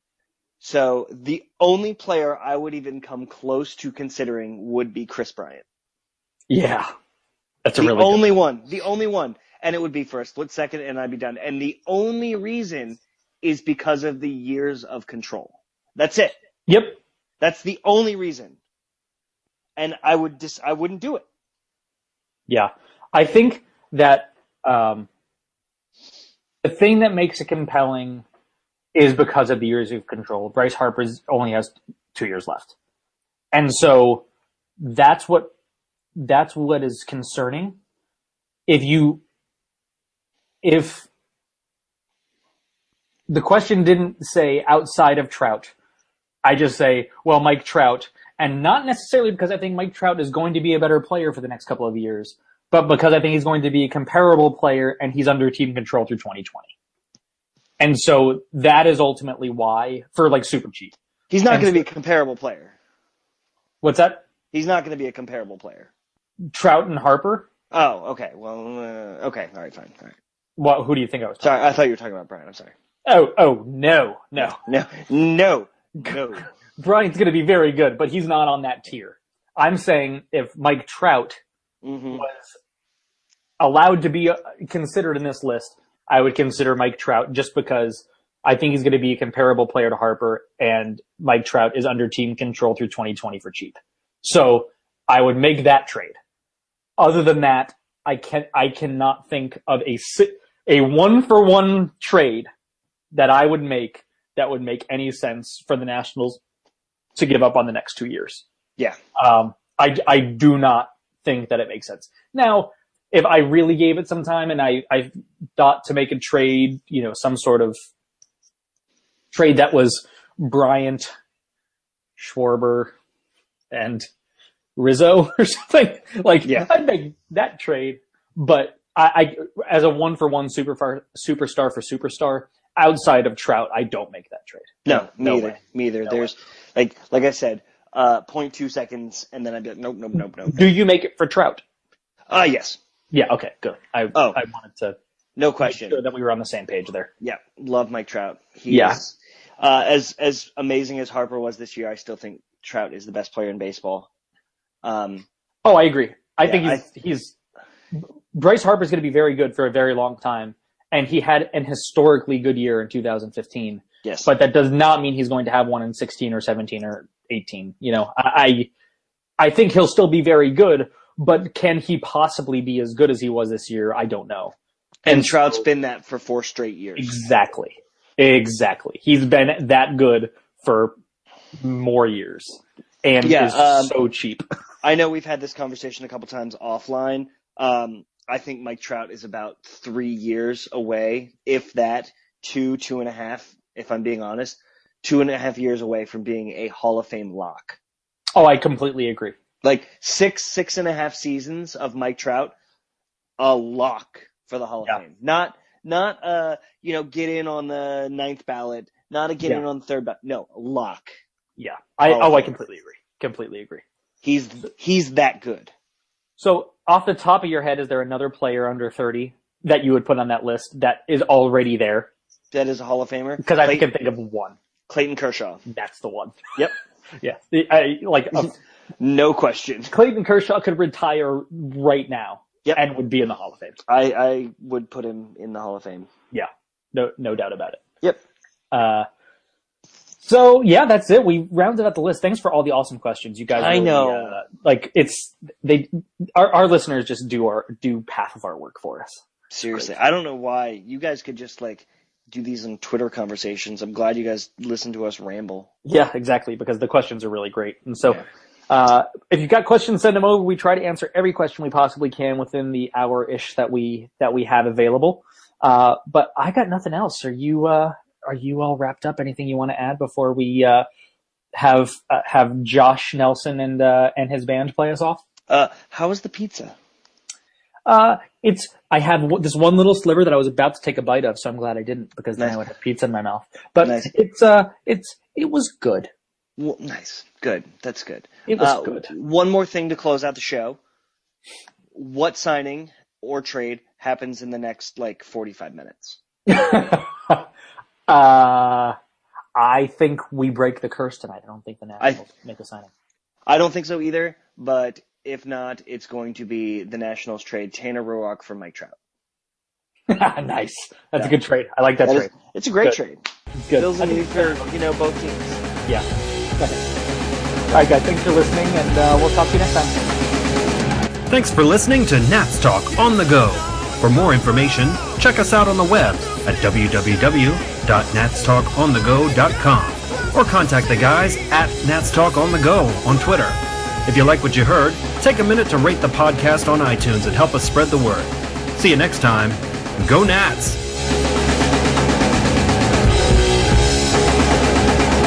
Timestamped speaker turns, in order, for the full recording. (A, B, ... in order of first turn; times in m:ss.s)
0:00.6-0:05.6 A
0:06.5-0:06.9 B
0:07.6-0:08.2 B
0:07.8-0:16.4 A
0:16.7-0:17.0 B
0:17.4-0:18.6 A
0:19.8-0:21.2 A
0:22.5-0:25.1 B
0:26.6-0:28.2 B
0:28.9-0:32.7 B
0:33.5-0:34.2 B
0:34.8-0:35.5 B
0:36.2-0:37.8 B
0:38.7-0:39.2 B
0:40.6-0:41.1 B
0:43.3-0:45.7 B
0:46.4-0:56.7 B
0:57.8-1:00.9 B
1:01.3-1:02.7 A
1:01.5-1:01.8 B
1:03.8-1:04.2 B
1:04.5-1:05.9 A
1:06.5-1:07.5 B
1:07.7-1:10.2 A
1:10.6-1:11.6 B
1:11.4-1:12.7 A
1:13.0-1:14.6 B
1:14.4-1:16.4 A
1:16.8-1:21.4 B
1:21.8-1:22.3 A
1:22.1-1:22.5 B
1:23.6-1:36.1 B
1:37.0-1:42.5 B
1:43.1-1:46.4 B
1:47.2-1:48.4 B
1:49.1-1:57.7 B
1:59.3-2:01.1 B
2:02.2-2:02.9 B
2:03.7-2:04.1 B
2:04.8-2:16.3 B
2:06.4-2:06.7 A
2:14.8-2:20.7 A
2:20.4-2:21.6 B
2:22.3-2:22.8 A
2:23.1-2:25.0 B
2:24.1-2:24.4 A
2:25.4-2:26.0 A
2:25.6-2:27.1 B
2:27.2-2:34.1 A
2:28.7-2:29.0 B
2:34.8-2:35.2 A
2:35.6-2:37.3 B
2:36.4-2:36.8 A
2:38.3-2:48.7 B
2:44.0-2:44.3 A
2:49.4-2:54.5 B
2:55.0-2:57.2 A
2:55.0-2:55.6 B
2:57.0-3:00.9 B
3:01.6-3:04.4 B
3:03.2-3:03.9 A
3:04.8-3:17.8 A
3:18.4-3:19.4 B
3:19.6-3:22.5 A
3:23.4-3:31.1 A
3:31.6-3:33.8 B
3:32.0-3:32.5 A
3:34.2-3:35.7 A
3:36.4-3:42.1 B
3:42.5-3:43.8 A
3:43.4-3:44.6 B
3:44.9-3:45.6 A
3:45.7-3:46.6 B
3:47.2-3:48.5 B
3:49.0-3:49.9 A
3:49.9-3:53.8 B
3:53.9-3:56.1 A
3:56.3-3:57.8 B
3:58.7-3:59.1 B
4:00.2-4:09.9 B
4:03.5-4:04.4 A
4:09.5-4:15.7 A
4:15.8-4:30.8 B
4:31.5-4:35.2 B
4:35.5-4:36.8 A
4:37.8-4:46.1 B
4:43.8-4:44.1 A
4:46.6-4:50.8 A
4:48.5-4:49.1 B
4:51.9-4:56.2 A
4:56.5-4:57.4 B
4:58.1-4:59.0 B
4:59.6-5:02.9 B
5:03.4-5:09.0 A
5:10.1-5:13.0 B
5:12.0-5:13.2 A
5:13.6-5:14.6 B
5:13.8-5:15.6 A
5:16.6-5:16.8 B
5:17.7-5:20.0 B
5:21.3-5:40.8 C